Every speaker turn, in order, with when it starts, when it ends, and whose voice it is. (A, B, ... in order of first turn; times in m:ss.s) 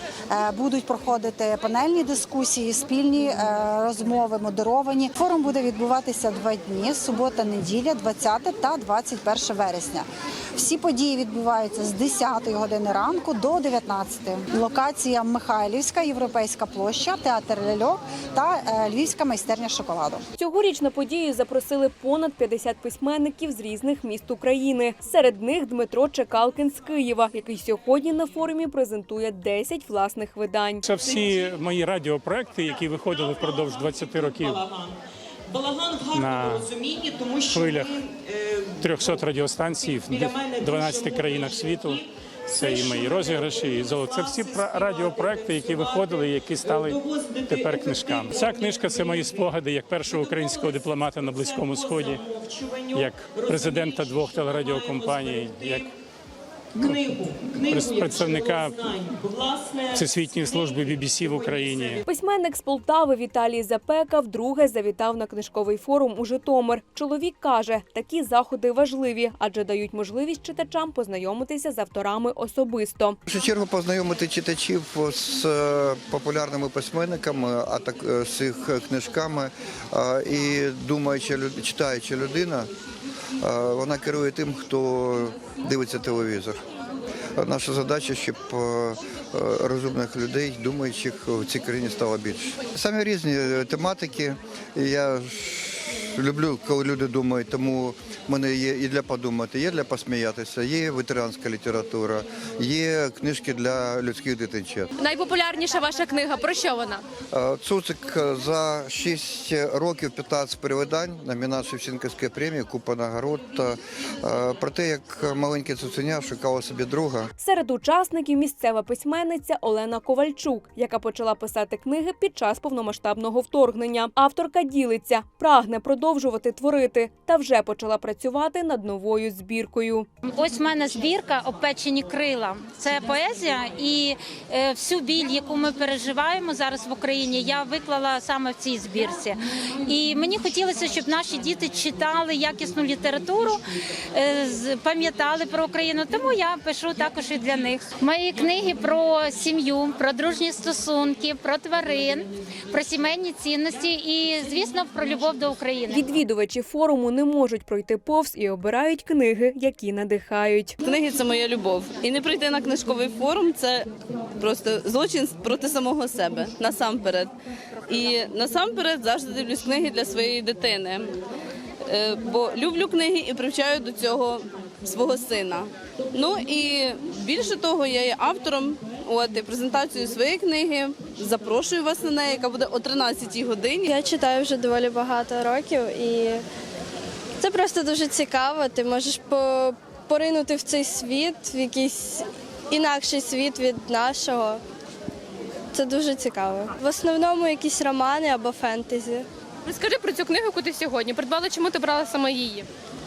0:00.3-0:20.2 A
0:20.4-0:30.8 B
0:30.8-0:34.6 C
0:35.5-0:38.6 D
0:36.1-0:36.7 C
0:37.5-0:37.9 C
0:38.8-0:52.2 C
0:40.2-0:41.7 D
0:42.5-0:46.0 D
0:46.7-0:49.1 D
0:50.2-0:50.8 D
0:51.8-0:53.9 D
0:52.9-0:55.9 C
0:54.7-0:55.4 D
0:56.8-1:00.0 D
0:57.6-0:58.8 C
0:59.9-1:02.0 C
1:01.3-1:02.0 D
1:02.0-1:13.2 B
1:13.3-1:22.7 E
1:23.4-1:26.6 E
1:27.4-1:44.9 E
1:45.0-1:47.0 F
1:47.3-1:57.3 E
1:57.4-2:10.1 B
2:10.2-2:23.6 G
2:24.1-2:36.0 G
2:35.9-2:40.8 B
2:40.8-2:47.3 H
2:47.9-2:51.2 H
2:51.8-3:03.9 H
3:03.8-3:06.4 I
3:07.4-3:14.6 I
3:15.7-3:19.2 I
3:19.6-3:22.7 F